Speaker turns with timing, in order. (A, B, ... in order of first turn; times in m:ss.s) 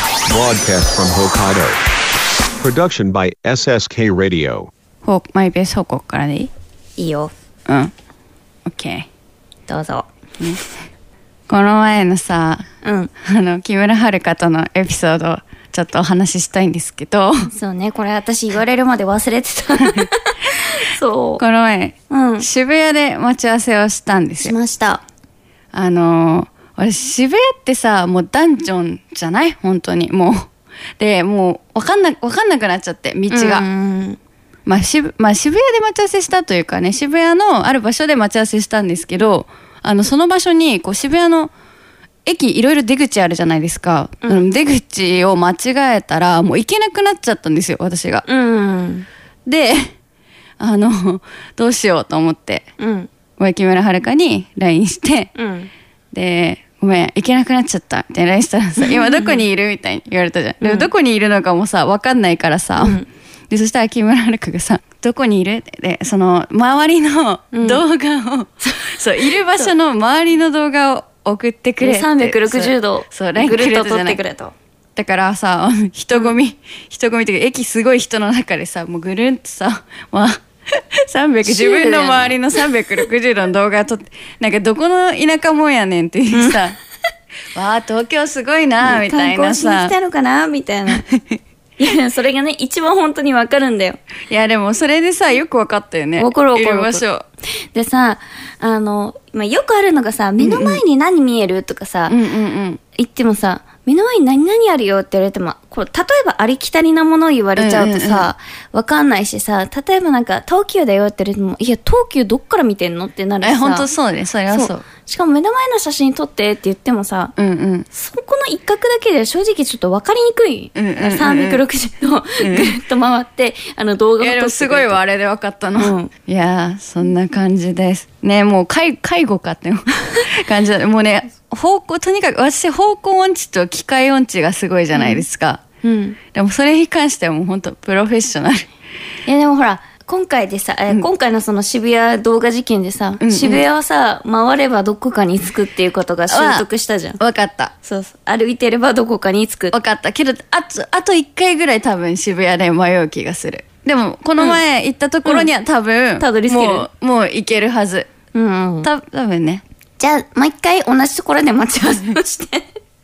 0:00.3-0:01.8 A
0:02.6-0:04.7 A
0:05.0-0:06.5 B
0:07.0-0:07.3 C
0:07.7-0:07.9 B
0:08.6-0:09.1 B
0:09.7-0:10.1 C
0:11.5-0:12.7 B
0:12.8-0:13.1 C
0:13.2-0:17.5 B
0:17.5-0:21.4 C
0:21.4-0:24.5 B
0:22.1-0:22.5 C
0:24.4-0:25.0 C
0:25.7-0:33.7 B
0:33.3-0:34.2 C
0:34.7-0:41.5 B
0:42.2-0:48.2 B
0:44.2-0:44.5 C
0:48.2-0:49.0 C
0:49.4-0:49.9 B
0:50.6-0:52.7 B
0:52.8-0:53.1 C
0:53.4-0:55.3 B
0:55.4-0:55.7 C
0:56.1-1:14.2 B
0:58.9-0:59.4 C
1:00.6-1:00.9 C
1:02.8-1:03.1 C
1:07.5-1:07.8 C
1:08.6-1:09.7 C
1:11.8-1:14.5 C
1:15.0-1:26.8 B
1:21.4-1:22.3 C
1:26.3-1:26.6 C
1:27.5-1:29.9 B
1:28.8-1:31.0 C
1:30.9-1:31.4 B
1:31.8-1:34.0 C
1:34.3-1:37.2 B
1:36.2-1:37.0 C
1:37.7-1:42.2 C
1:40.4-1:40.8 B
1:42.1-1:42.8 B
1:43.0-1:53.9 C
1:47.6-1:48.3 B
1:53.4-1:54.8 B
1:54.5-1:57.3 C
1:57.4-1:57.9 B
1:57.9-2:05.0 C
2:00.8-2:01.6 B
2:02.4-2:02.8 B
2:04.2-2:15.6 B
2:05.8-2:06.1 C
2:14.9-2:15.2 C
2:15.8-2:16.2 C
2:16.3-2:18.7 B
2:19.2-2:27.2 C
2:23.2-2:23.7 B
2:26.3-2:26.7 B
2:27.2-2:27.7 B
2:27.8-2:29.8 C
2:29.7-2:38.1 B
2:35.2-2:35.5 C
2:36.2-2:36.9 C
2:38.3-2:38.9 C
2:38.8-2:39.6 B
2:40.0-2:42.7 C